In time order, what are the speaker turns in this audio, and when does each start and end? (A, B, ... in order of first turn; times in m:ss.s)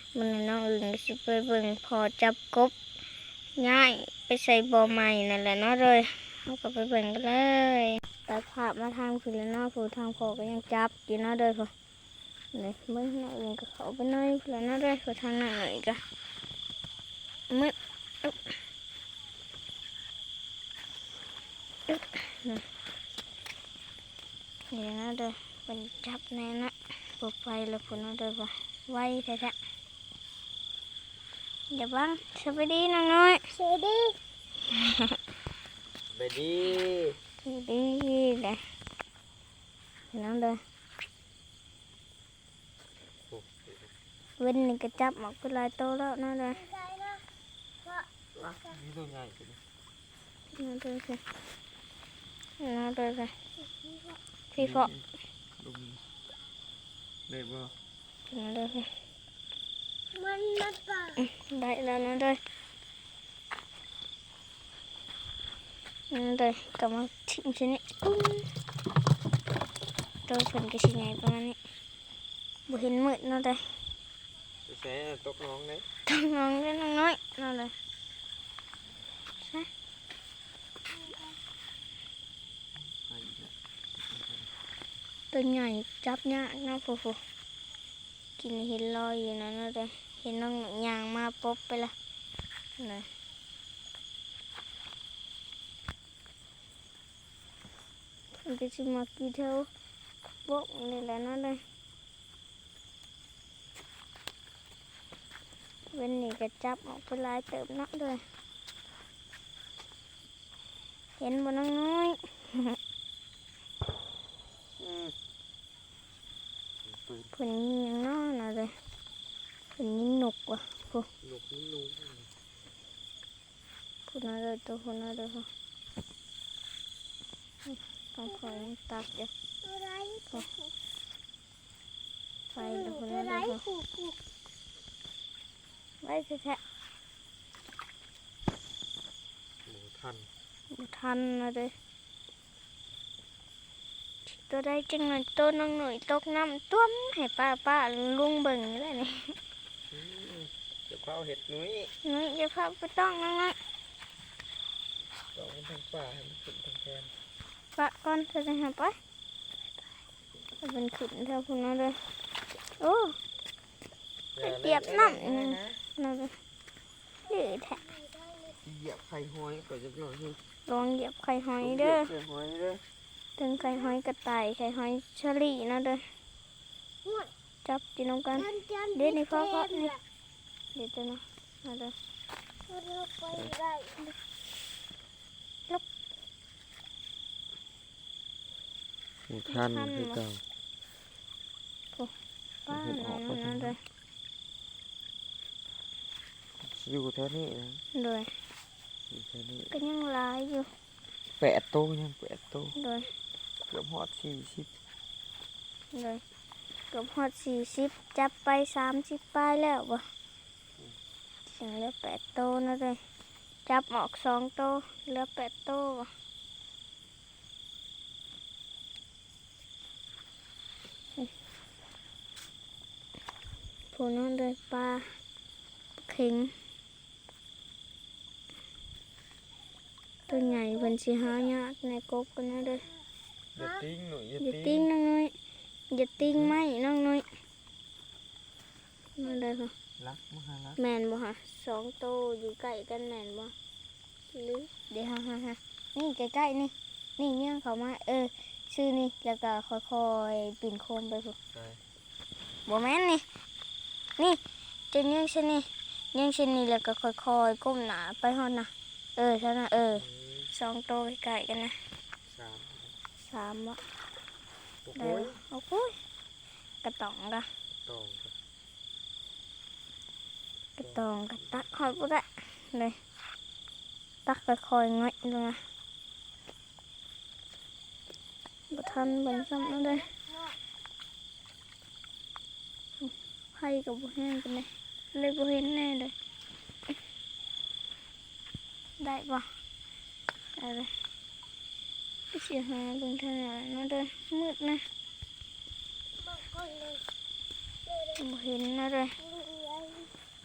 0:00.2-0:02.8 A
0:03.6-0:11.7 A
0:12.5-0:16.0 A
0:17.5-0:18.5 A
0:21.9-0:22.6 A
0:24.7-0:29.6 A
0:31.7-0:33.5 A
0:33.6-0:34.2 B
0:34.6-0:35.1 A
0:36.1-0:37.2 C
0:37.4-0:38.6 A
0:40.1-0:40.6 A
0:43.3-0:43.9 C
0:44.4-0:46.7 A
0:48.4-0:49.6 C
0:50.5-0:51.2 A
0:52.6-0:53.4 A
0:54.5-0:54.9 A
0:54.6-0:55.0 C
0:55.6-0:56.0 C
0:57.3-0:57.7 C
0:58.3-0:58.9 A
1:00.2-1:01.1 B
1:01.2-1:02.4 A
1:06.1-1:08.5 A
1:10.2-1:11.6 A
1:12.7-1:13.8 A
1:14.7-1:15.8 C
1:16.1-1:17.7 A
1:19.4-1:19.7 A
1:22.8-1:23.6 C
1:24.1-1:24.5 C
1:25.3-1:27.2 A
1:28.4-1:32.0 A
1:32.8-1:33.1 A
1:38.4-1:39.7 A
1:40.5-1:41.6 A
1:45.9-1:48.2 A
1:51.2-1:52.8 A
1:54.8-1:55.2 C
1:56.8-1:57.3 C
1:57.3-1:58.7 A
1:59.8-2:01.1 A
2:01.2-2:02.3 C
2:04.1-2:05.5 A
2:07.7-2:09.3 A
2:09.7-2:10.3 B
2:12.6-2:13.7 A
2:13.6-2:14.1 B
2:16.0-2:16.6 A
2:19.7-2:20.3 C
2:20.7-2:21.7 A
2:24.3-2:29.4 A
2:29.9-2:31.9 C
2:32.0-2:33.6 A
2:35.3-2:37.1 C
2:37.7-2:39.0 A
2:40.6-2:42.0 A
2:42.8-2:43.2 A
2:44.4-2:45.8 C
2:44.4-2:46.4 A
2:47.3-2:47.9 A
2:48.6-2:50.4 C
2:50.7-2:52.1 A
2:51.6-2:52.8 C
2:53.4-2:56.1 A
2:57.6-3:00.0 A
3:00.7-3:02.0 A
3:02.7-3:03.9 B
3:09.3-3:10.4 C
3:09.5-3:10.2 A
3:12.7-3:13.8 A
3:12.7-3:13.8 C
3:16.6-3:17.8 C
3:17.9-3:18.4 A
3:19.1-3:19.7 C
3:19.7-3:20.7 A
3:21.2-3:22.8 C
3:22.8-3:23.1 A
3:23.7-3:24.7 C
3:25.9-3:26.2 A
3:26.9-3:30.1 A
3:31.5-3:33.0 A
3:33.7-3:36.1 A
3:43.9-3:45.2 A
3:46.0-3:46.5 A
3:50.3-3:52.9 A
3:53.6-3:54.9 C
3:54.4-3:55.4 A
3:55.9-3:57.3 A
3:56.2-3:56.6 C
3:59.2-3:59.7 A
4:00.0-4:00.8 C
4:00.8-4:03.5 A
4:04.3-4:11.4 A
4:11.5-4:11.8 C
4:12.7-4:13.2 A
4:14.9-4:21.8 A
4:20.0-4:20.5 C
4:22.3-4:23.0 C
4:23.2-4:23.8 A
4:24.8-4:25.4 C
4:25.0-4:26.0 A
4:26.8-4:27.5 A
4:27.8-4:28.3 C
4:30.8-4:33.0 A
4:30.8-4:31.6 C
4:34.3-4:35.6 A
4:38.7-4:40.1 A
4:43.0-4:46.2 A
4:49.0-4:49.5 A
4:50.6-4:50.9 A
4:52.3-4:54.8 A
4:56.4-4:57.0 B
4:58.1-4:59.2 A
4:59.5-5:00.0 B